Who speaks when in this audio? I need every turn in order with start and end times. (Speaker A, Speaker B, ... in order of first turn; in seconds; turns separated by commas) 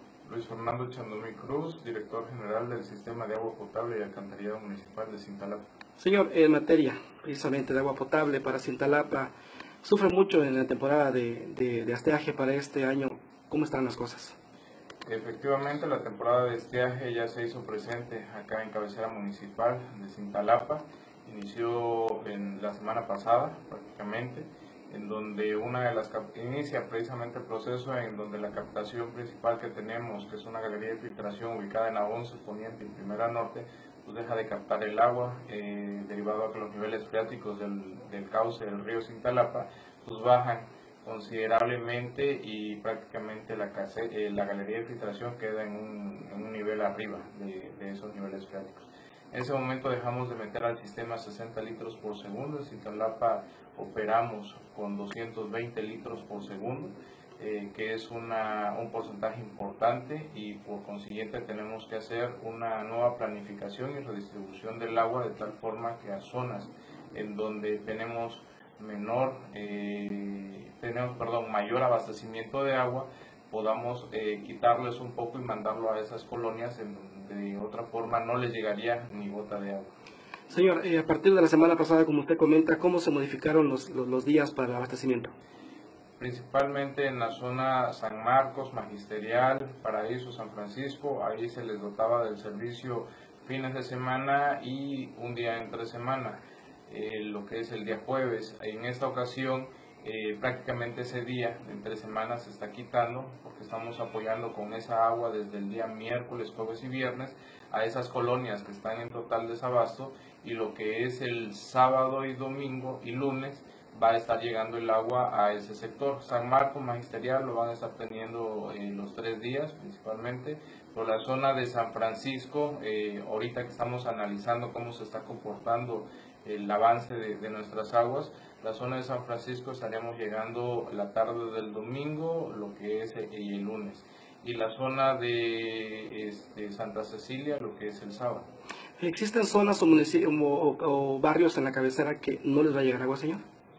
Speaker A: 0.2-5.7, Speaker B: 6.0-14.4, Speaker A: 15.0-79.9, Speaker B: 80.5-85.3, Speaker A: 86.2-138.5, Speaker B: 139.0-143.4